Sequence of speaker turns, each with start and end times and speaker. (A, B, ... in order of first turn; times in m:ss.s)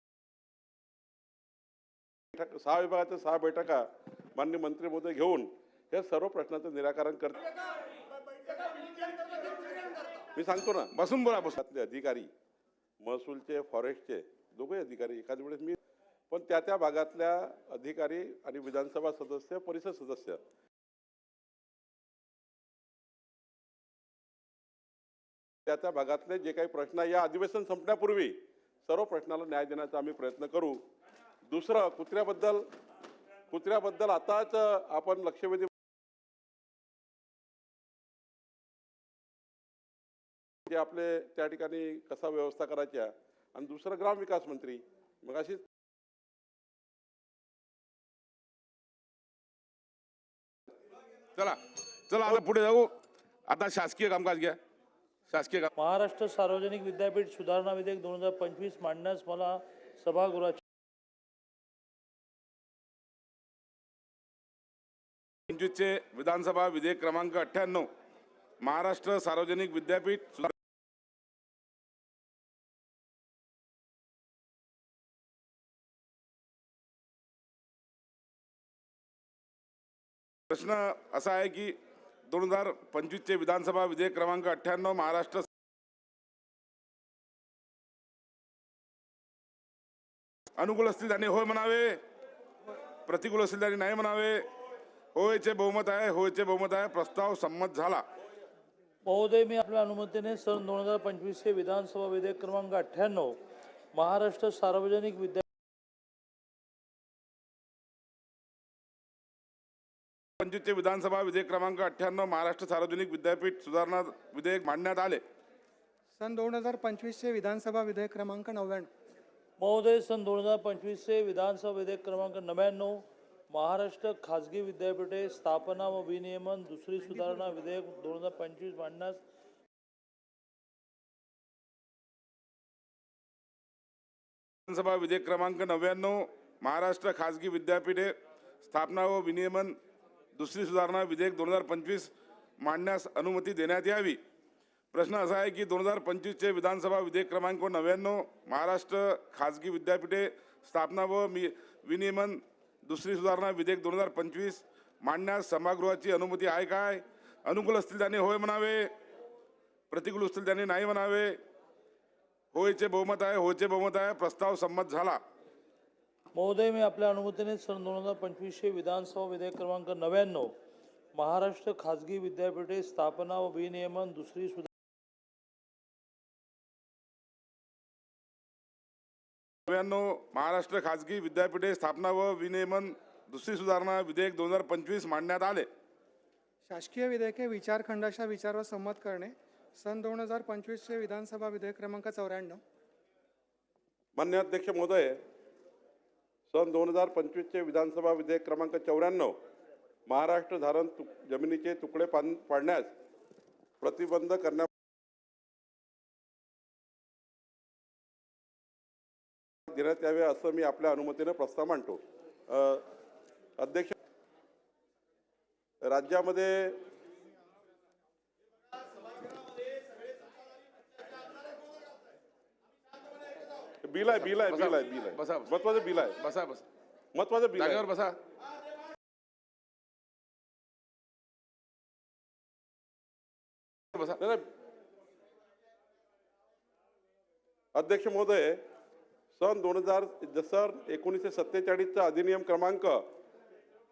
0:02.3-0:07.4 A
0:10.4-0:10.9 A
0:10.9-0:11.6 B
0:11.6-0:12.3 A
0:13.0-0:15.8 A
0:16.3-0:20.4 A
0:25.7-0:30.8 A
0:31.5-0:32.7 A
0:33.5-0:35.7 A
0:40.7-0:45.6 A
0:51.4-0:52.9 B
0:53.5-0:54.6 B
0:55.3-0:55.7 B
0:55.8-1:00.6 C
1:05.5-1:07.9 B
1:08.6-1:10.5 B
1:20.5-1:21.8 B
1:22.3-1:25.5 B
1:30.6-1:32.0 B
1:33.1-1:34.5 B
1:35.2-1:38.0 B
1:39.1-1:43.4 C
1:43.9-1:45.4 C
1:50.4-1:55.2 B
1:56.2-1:58.9 D
1:59.6-2:09.2 C
2:14.7-2:19.8 B
2:20.4-2:24.2 B
2:24.9-2:38.9 B
2:39.9-2:41.4 B
2:42.5-2:45.2 B
2:46.3-2:50.5 C
2:51.2-2:54.7 C
2:59.7-3:05.7 B
3:06.7-3:12.6 D
3:14.2-3:15.2 A
3:16.5-3:19.4 A
3:20.1-3:22.9 A
3:23.8-3:24.7 A
3:29.7-3:32.8 A
3:33.6-3:34.0 A
3:35.8-3:36.8 A
3:43.8-3:46.2 A
3:44.2-3:45.5 B
3:46.2-3:46.6 B
3:47.1-3:47.9 A
3:47.6-3:48.2 B
3:54.2-3:54.4 A
3:57.7-3:58.6 A
3:59.3-4:03.0 A